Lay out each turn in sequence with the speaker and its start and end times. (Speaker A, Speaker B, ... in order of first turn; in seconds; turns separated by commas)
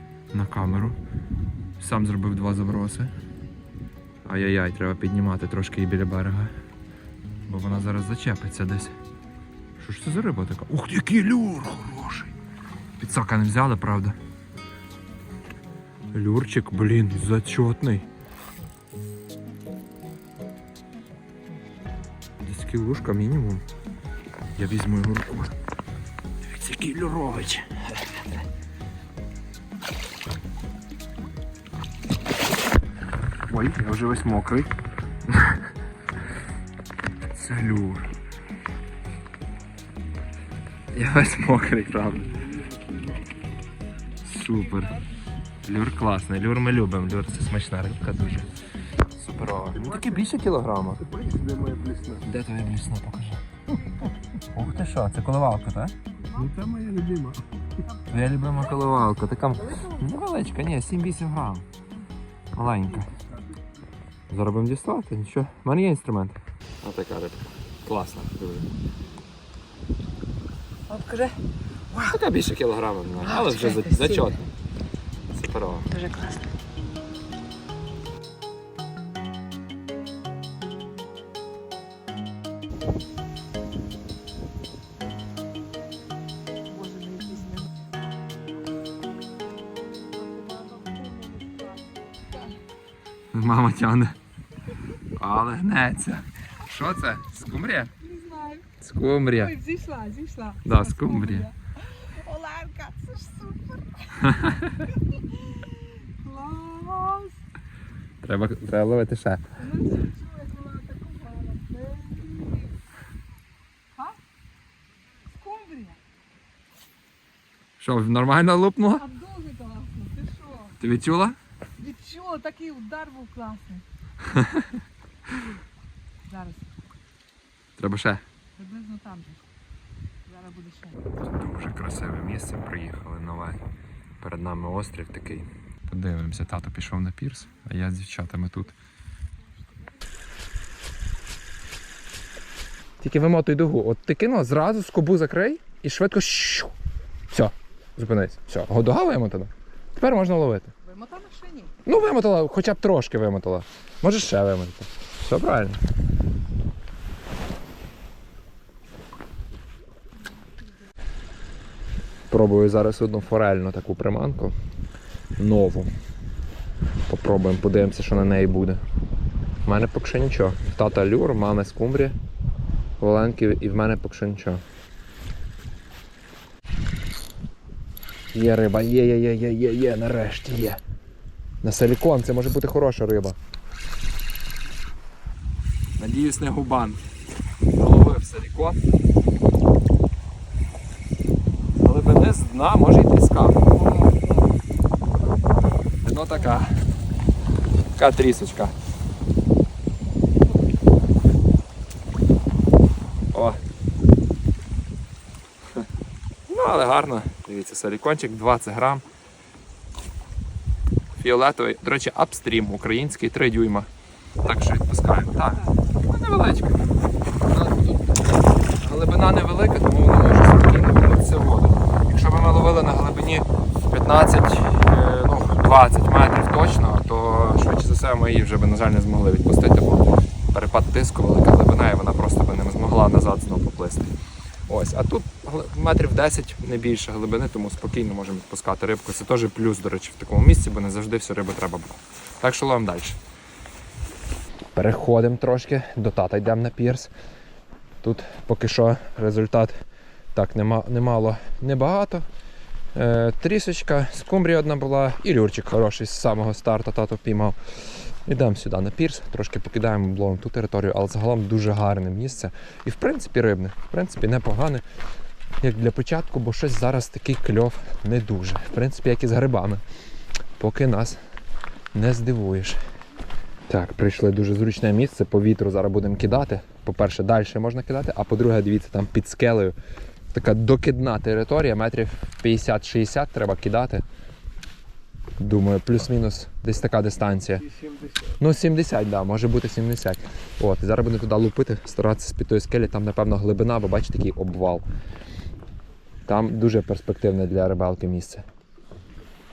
Speaker A: 0.3-1.0, Speaker A: 1.8-3.1, Speaker A: 4.2-6.5, Speaker A: 7.5-8.9, Speaker A: 9.8-12.3, Speaker A: 13.0-14.2, Speaker A: 16.1-18.1, Speaker A: 22.4-23.6, Speaker A: 24.6-25.5, Speaker A: 26.4-28.2, Speaker A: 33.5-34.7, Speaker A: 35.3-35.6, Speaker A: 37.3-38.1, Speaker A: 40.9-42.4, Speaker B: 42.5-43.0, Speaker A: 44.2-45.0, Speaker A: 45.6-51.0, Speaker B: 51.0-52.2, Speaker A: 52.2-53.4, Speaker A: 54.0-55.9, Speaker B: 56.3-57.5, Speaker A: 58.1-61.7, Speaker C: 58.1-58.9, Speaker C: 59.6-60.0, Speaker A: 62.5-63.1, Speaker A: 64.3-68.7, Speaker D: 70.9-71.3, Speaker C: 70.9-71.3, Speaker A: 72.0-74.4, Speaker D: 73.3-74.3, Speaker A: 75.3-75.9, Speaker D: 75.9-76.4, Speaker C: 86.7-87.7, Speaker C: 90.1-92.6, Speaker A: 93.3-94.2, Speaker A: 95.1-97.9, Speaker C: 98.0-98.7, Speaker A: 98.8-99.5, Speaker C: 99.2-107.3, Speaker A: 100.6-101.5, Speaker A: 104.1-104.8, Speaker A: 108.2-109.4, Speaker C: 109.6-112.8, Speaker C: 115.4-116.0, Speaker A: 117.8-119.1, Speaker C: 118.9-120.8, Speaker A: 120.8-121.4, Speaker C: 121.8-123.8, Speaker A: 124.2-124.8, Speaker C: 126.2-126.7, Speaker A: 127.8-128.2, Speaker C: 128.6-129.4, Speaker C: 130.3-131.0, Speaker A: 131.2-133.6, Speaker A: 134.2-138.8, Speaker A: 143.0-146.7, Speaker A: 147.3-150.7, Speaker C: 150.8-151.8, Speaker A: 151.8-155.8, Speaker A: 162.3-164.5, Speaker A: 165.4-165.9, Speaker A: 167.1-168.8, Speaker A: 169.6-172.2, Speaker A: 173.0-174.6, Speaker A: 178.3-180.8, Speaker A: 181.6-183.3, Speaker A: 186.0-187.0, Speaker A: 187.7-188.8, Speaker A: 191.8-193.6, Speaker C: 193.7-194.5, Speaker C: 195.2-195.8, Speaker A: 196.0-196.7, Speaker A: 197.9-198.7, Speaker A: 203.3-203.6, Speaker A: 206.5-209.0, Speaker A: 211.1-213.9, Speaker A: 214.4-216.9, Speaker A: 217.4-218.2, Speaker A: 218.8-234.1, Speaker A: 234.7-243.2, Speaker A: 244.7-247.1, Speaker A: 248.0-249.7, Speaker A: 250.3-252.2, Speaker A: 252.9-257.6, Speaker A: 258.2-264.8, Speaker A: 265.6-269.8, Speaker A: 270.6-271.2, Speaker A: 271.9-272.8, Speaker A: 273.7-279.8, Speaker A: 280.3-284.0, Speaker A: 285.4-287.6, Speaker B: 287.5-288.3, Speaker A: 288.4-294.8, Speaker A: 296.3-298.4